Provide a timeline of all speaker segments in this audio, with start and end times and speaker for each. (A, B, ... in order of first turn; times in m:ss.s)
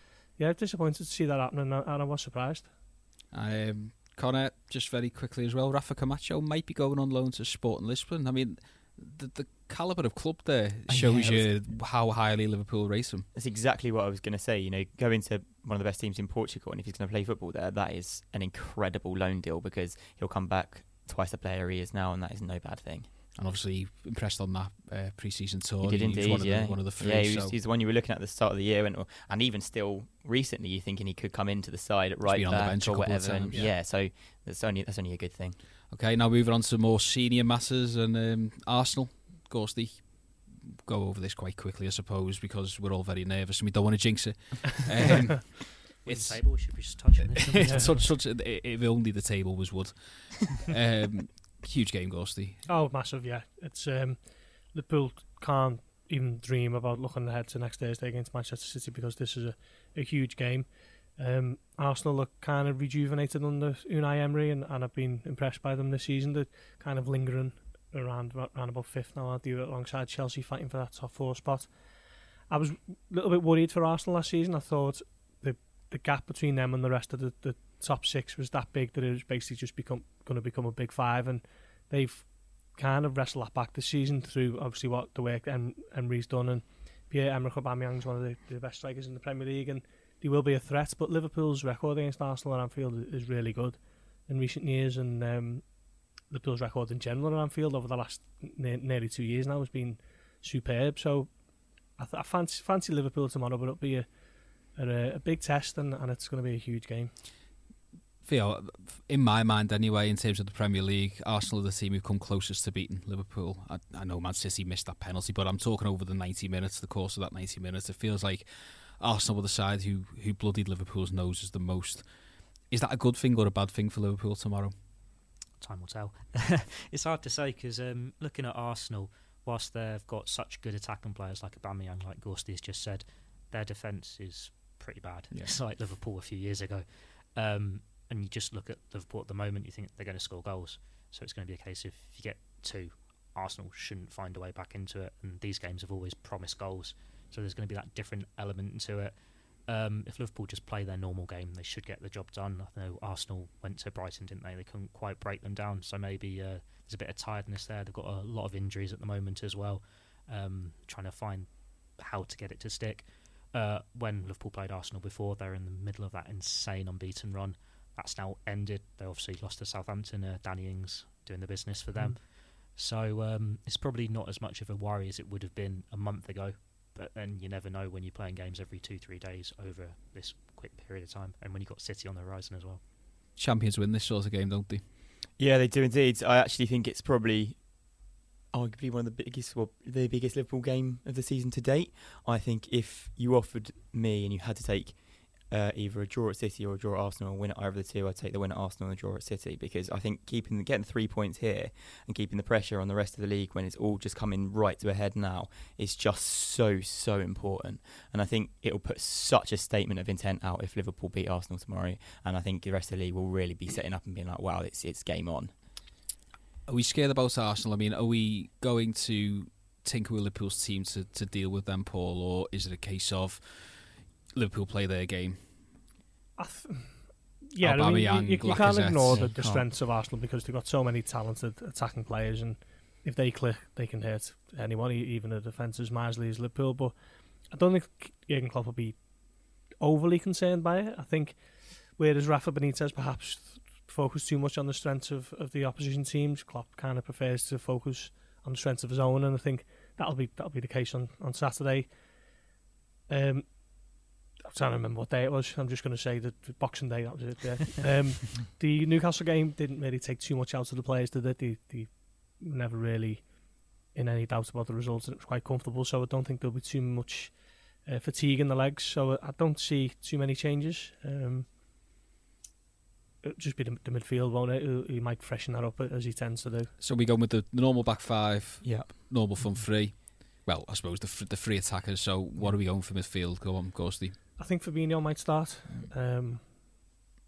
0:00.4-0:02.7 A
0:03.3-0:13.3 B
0:10.9-0:11.5 C
0:13.3-0:23.1 C
0:23.3-0:27.5 B
0:25.8-0:35.6 C
0:32.2-0:33.7 B
0:35.9-0:52.6 B
0:46.0-0:48.1 D
0:47.6-0:47.9 A
0:52.6-1:11.7 A
1:12.5-1:35.6 A
1:36.3-1:41.3 A
1:42.0-1:44.0 A
1:44.7-1:47.1 A
1:48.2-2:02.0 B
2:02.7-2:04.7 B
2:05.6-2:29.2 D
2:15.3-2:15.6 B
2:29.7-3:02.8 D
3:03.4-3:04.8 B
3:05.4-3:07.9 C
3:08.5-3:35.5 C
3:36.7-3:45.5 B
3:46.4-3:46.9 A
3:47.5-3:56.9 A
3:47.6-3:49.5 B
3:49.1-3:49.6 C
3:57.5-3:59.0 A
3:59.8-4:01.4 A
4:02.0-4:11.9 A
4:13.1-4:13.9 A
4:14.4-4:31.5 A
4:33.2-4:36.7 A
4:36.8-4:44.2 B
4:38.6-4:39.6 C
4:44.4-4:46.4 A